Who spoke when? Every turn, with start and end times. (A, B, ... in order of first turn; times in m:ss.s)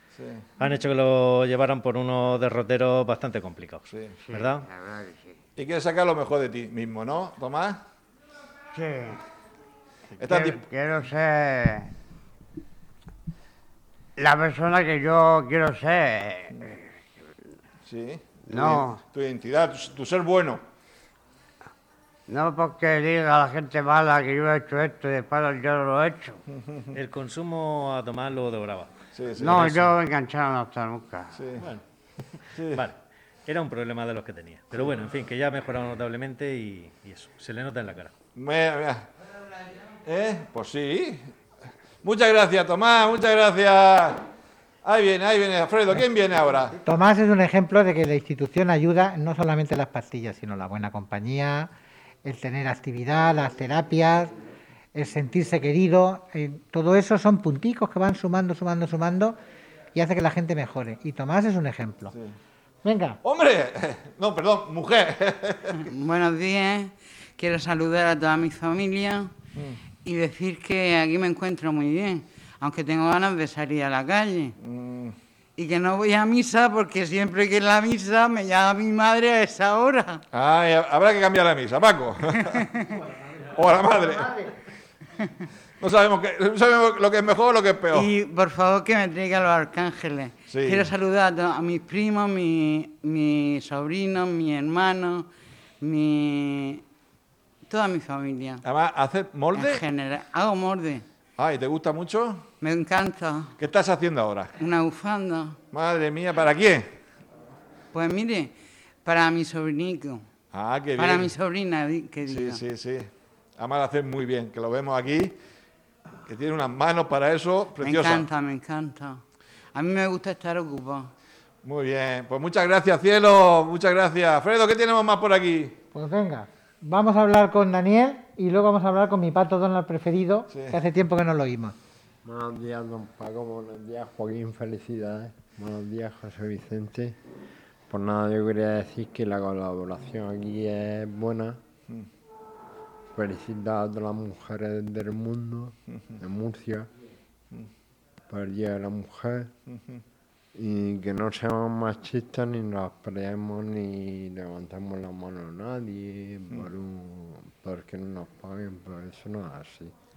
0:00.2-0:00.5 A
0:00.6-0:04.6 B
0:03.9-0:04.1 A
0:04.2-0:05.3 C
0:05.6-0:07.8 A
0:08.7-0:09.2 C
0:10.2-0:10.6 A
0:10.2-0:11.9 C
0:14.2-0:16.8 C
0:17.8-0:20.6 A
0:18.5-0:19.0 C
0:22.3-0:26.4 C
0:26.9-0:28.9 B
0:29.1-0:29.9 A
0:29.4-0:31.4 C
0:31.3-0:31.6 A
0:32.5-0:32.8 A
0:32.7-0:38.1 B
0:38.4-0:39.1 A
0:40.0-0:41.3 A
0:42.0-0:44.2 A
0:44.8-0:46.8 A
0:46.8-0:51.7 D
0:52.2-0:54.3 D
0:54.9-0:59.4 D
0:59.9-1:02.1 D
1:02.8-1:03.2 D
1:03.2-1:05.8 A
1:06.0-1:09.3 E
1:10.1-1:14.5 E
1:14.6-1:15.1 A
1:15.6-1:20.2 E
1:20.3-1:22.5 A
1:23.5-1:24.3 A
1:23.8-1:24.5 D
1:25.8-1:28.1 A
1:28.0-1:35.3 E
1:30.5-1:30.9 A
1:35.8-1:36.8 E
1:37.7-1:38.6 E
1:38.6-1:39.8 A
1:39.6-1:41.0 E
1:41.4-1:42.4 A
1:42.6-1:43.5 E
1:43.6-1:44.5 A
1:44.6-1:45.6 E
1:45.7-1:46.9 A
1:47.9-1:48.5 E
1:49.0-1:50.2 E
1:50.5-1:51.3 A
1:51.0-1:52.4 E
1:52.2-1:55.4 A
1:56.3-1:58.3 A
1:57.8-1:59.2 E
1:59.8-2:01.1 E
2:01.6-2:05.8 A
2:05.9-2:11.7 D
2:10.5-2:10.8 A
2:12.2-2:17.2 F
2:17.9-2:21.6 F
2:23.1-2:26.9 F
2:28.3-2:29.5 F
2:29.7-2:30.0 A
2:30.5-2:39.9 F